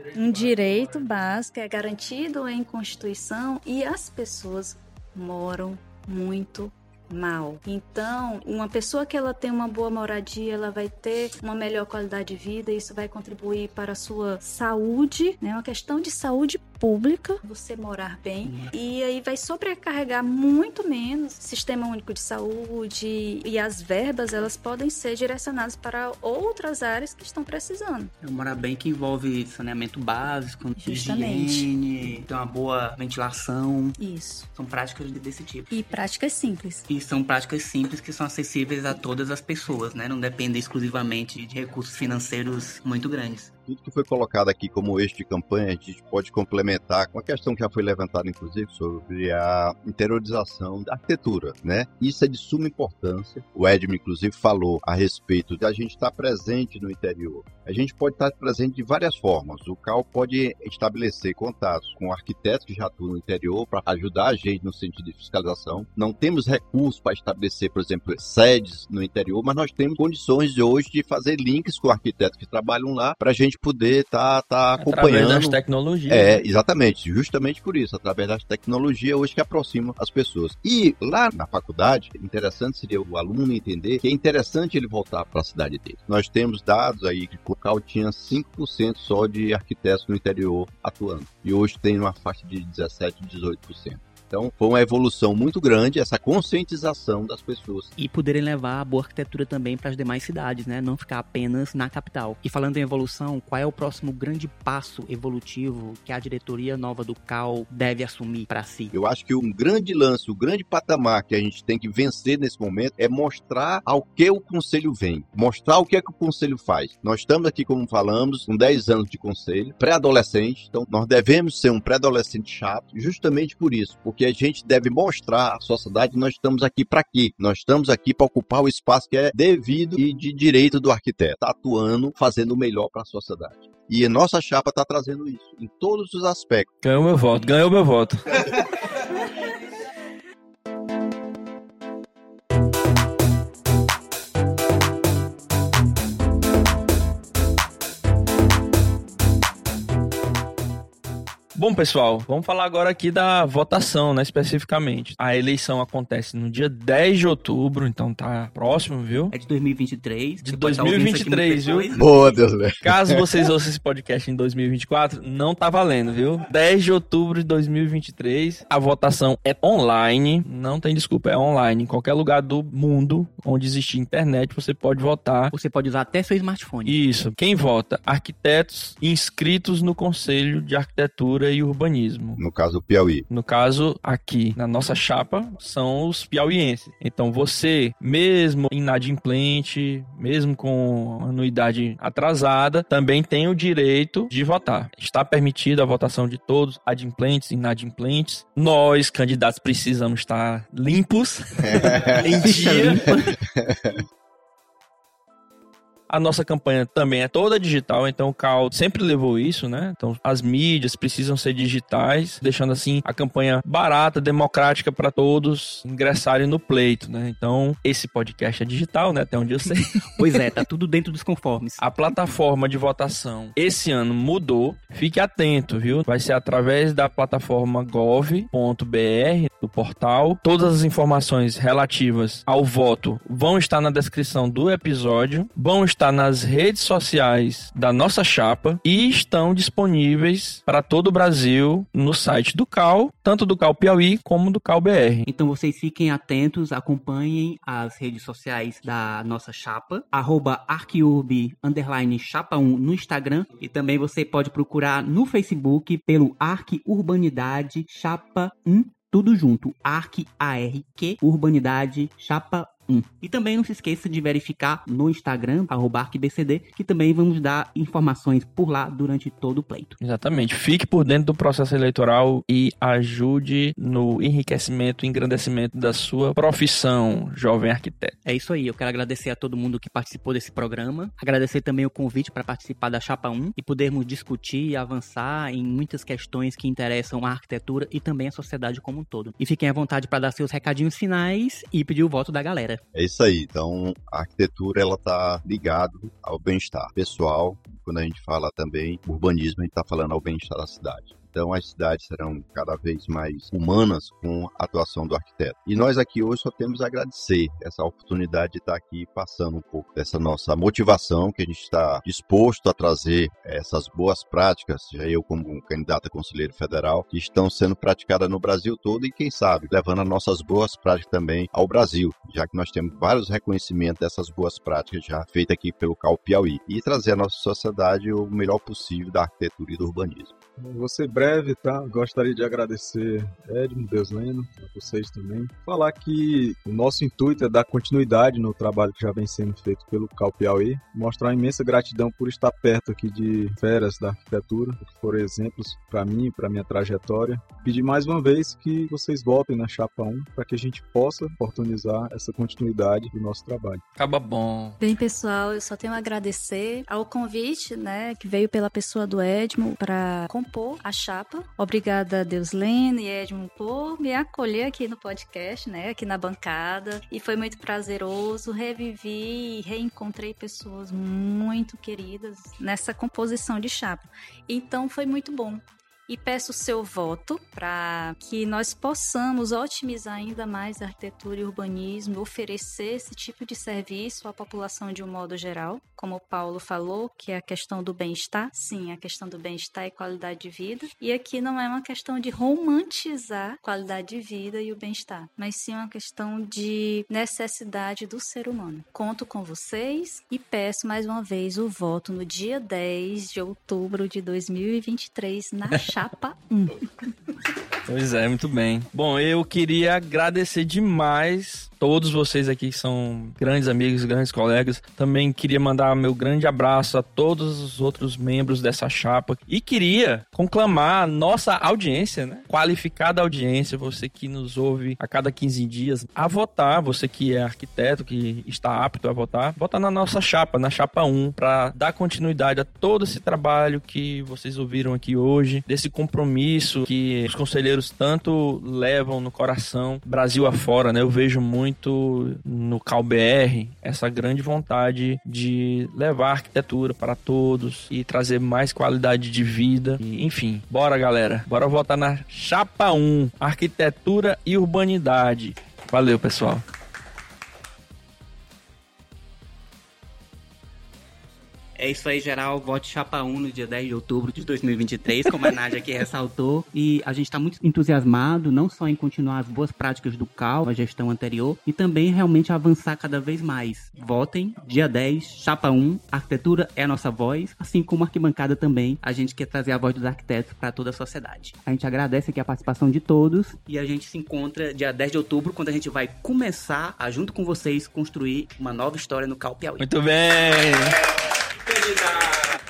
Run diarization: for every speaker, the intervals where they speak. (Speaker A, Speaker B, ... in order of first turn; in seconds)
Speaker A: 0.1-28.1, 30.8-31.7, 34.0-34.5, 35.7-36.9, 354.8-406.8
Speaker B: 18.4-18.7, 28.2-34.0, 34.5-35.8, 36.9-43.5, 98.0-108.9, 159.3-162.4, 175.5-177.0, 202.2-203.3, 220.2-221.8, 245.3-270.0, 278.2-292.8, 461.8-489.9
Speaker C: 43.7-97.9, 108.9-136.7, 161.9-163.5, 182.4-183.3, 201.7-202.2, 203.6-204.0, 292.9-330.3
Speaker D: 74.8-76.4, 136.8-138.2, 151.6-159.3, 160.4-161.9, 162.8-175.5, 176.9-182.4, 183.3-203.2, 206.1-220.3, 221.8-245.3, 270.0-278.2, 354.0-354.8, 405.7-406.0, 407.9-456.6, 489.8-491.0, 491.7-492.2
Speaker E: 330.6-353.8